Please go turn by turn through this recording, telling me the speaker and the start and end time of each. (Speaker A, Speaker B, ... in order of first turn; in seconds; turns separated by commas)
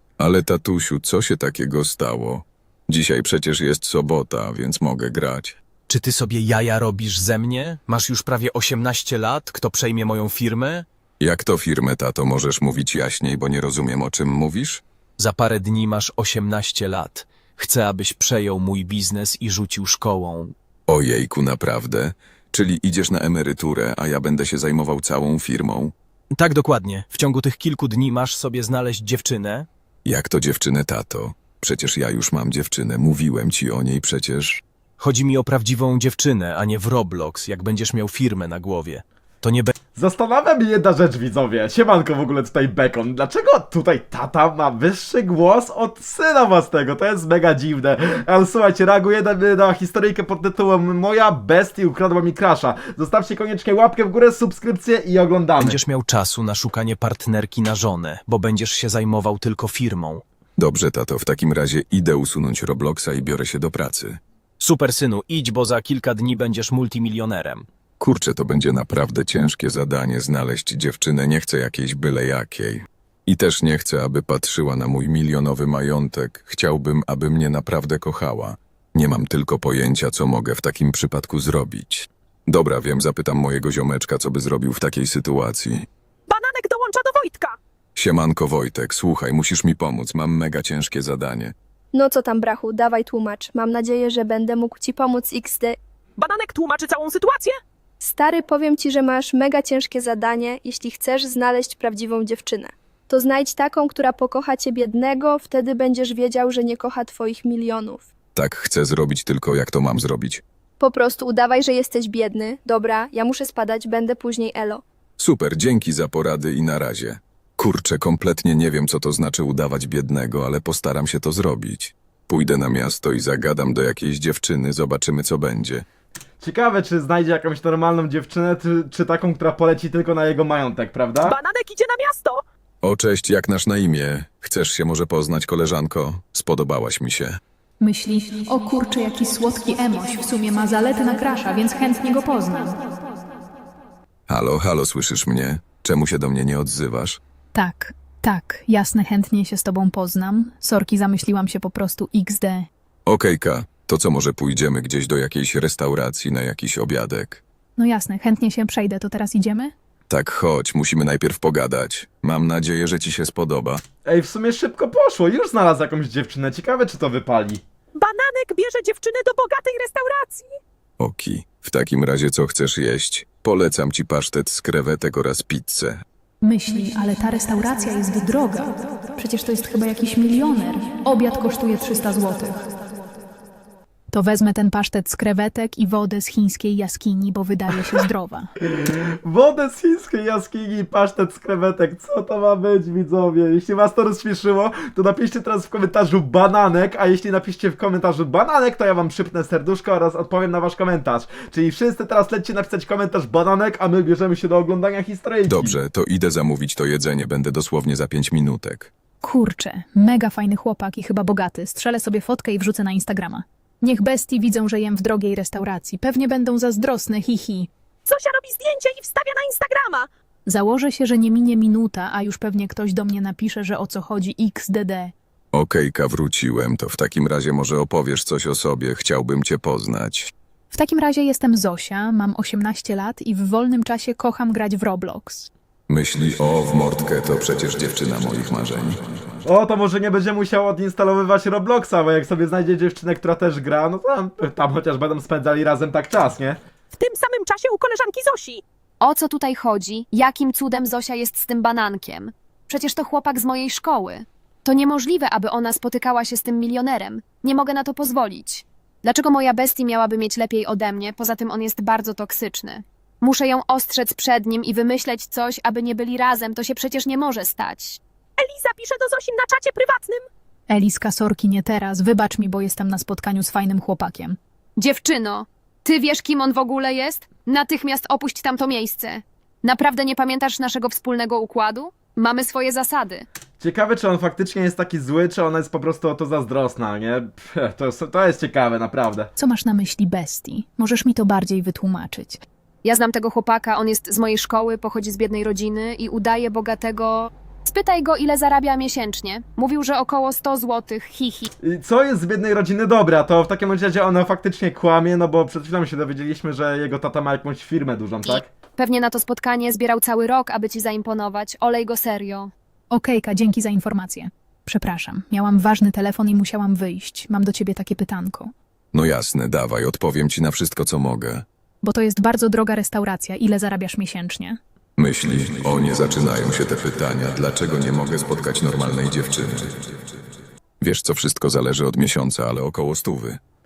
Speaker A: 0.2-5.6, Speaker B: 5.9-10.9, Speaker A: 11.2-14.8, Speaker B: 15.2-20.6, Speaker A: 20.9-25.9, Speaker B: 26.3-29.7, Speaker A: 30.1-34.6, Speaker B: 35.0-39.7, Speaker C: 40.0-55.8, Speaker B: 55.6-60.2, Speaker A: 60.6-64.2, Speaker B: 64.6-67.7, Speaker A: 68.0-85.9, Speaker D: 86.3-87.6, Speaker A: 88.0-91.5, Speaker E: 91.9-95.8, Speaker D: 96.2-97.6, Speaker E: 98.0-108.0, Speaker A: 108.3-110.4, Speaker E: 110.8-114.8, Speaker A: 115.2-125.8, Speaker C: 126.4-131.3, Speaker D: 131.2-132.4, Speaker A: 132.8-137.4, Speaker F: 137.8-142.8, Speaker A: 144.3-147.2, Speaker F: 147.5-152.7, Speaker A: 153.1-157.4, Speaker F: 157.8-159.7, Speaker A: 160.1-163.8, Speaker C: 164.0-167.6, Speaker D: 167.9-170.5, Speaker A: 171.0-176.0, Speaker F: 176.4-182.6, Speaker F: 184.1-188.5, Speaker C: 188.7-205.8, Speaker A: 205.4-208.9, Speaker F: 209.2-217.7, Speaker D: 218.1-220.1, Speaker F: 220.5-225.1, Speaker A: 225.5-230.3, Speaker F: 230.7-235.5, Speaker A: 235.9-239.0, Speaker C: 239.4-246.6, Speaker D: 247.0-248.6, Speaker G: 249.0-268.0, Speaker D: 268.4-270.3, Speaker F: 270.7-274.4, Speaker G: 274.8-283.2, Speaker C: 283.6-289.3, Speaker F: 289.4-292.4, Speaker G: 292.8-301.5, Speaker C: 301.6-308.4, Speaker G: 308.2-312.5, Speaker F: 312.9-318.5, Speaker A: 318.9-321.4, Speaker F: 321.8-324.6, Speaker A: 325.0-329.9, Speaker A: 330.8-333.4